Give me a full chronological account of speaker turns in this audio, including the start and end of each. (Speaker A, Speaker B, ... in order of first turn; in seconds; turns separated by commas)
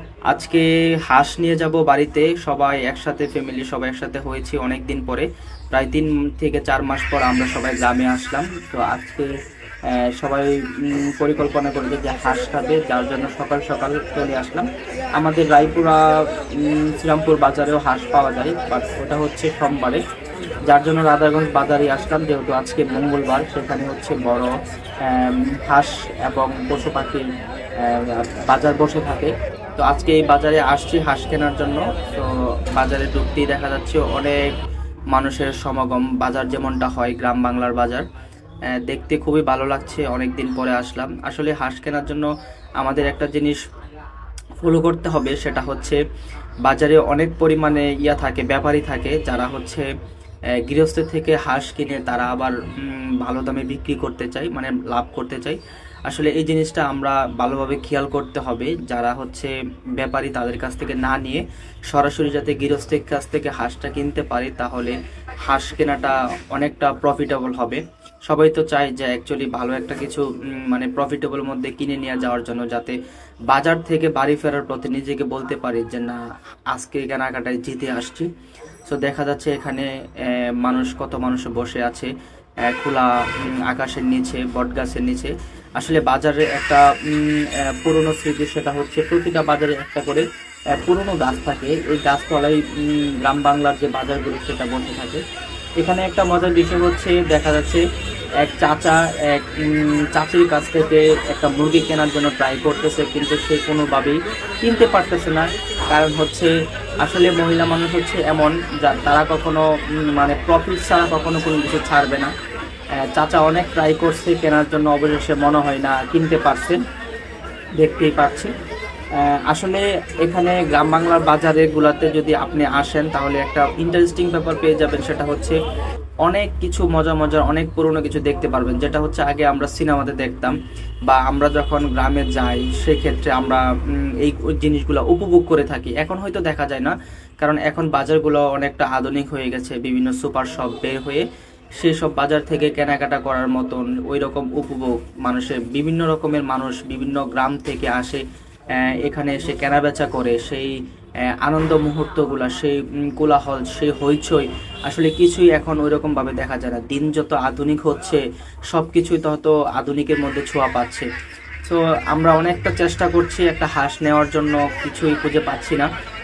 Speaker A: 0.3-9.3, Speaker A: 10.0-20.0, Speaker A: 20.7-27.3, Speaker A: 27.8-34.4, Speaker A: 35.1-38.0, Speaker A: 38.7-42.3, Speaker A: 42.8-43.6, Speaker A: 44.6-46.0, Speaker A: 46.6-49.9, Speaker A: 50.6-76.2, Speaker A: 76.7-78.3, Speaker A: 78.9-82.1, Speaker A: 82.7-83.1, Speaker A: 83.6-90.2, Speaker A: 90.8-95.2, Speaker A: 95.8-97.8, Speaker A: 98.4-112.3, Speaker A: 113.0-116.8, Speaker A: 117.8-118.5, Speaker A: 119.2-125.6, Speaker A: 126.2-130.5, Speaker A: 131.1-133.6, Speaker A: 134.2-141.2, Speaker A: 141.8-148.2, Speaker A: 148.8-150.7, Speaker A: 151.4-161.1, Speaker A: 161.6-165.9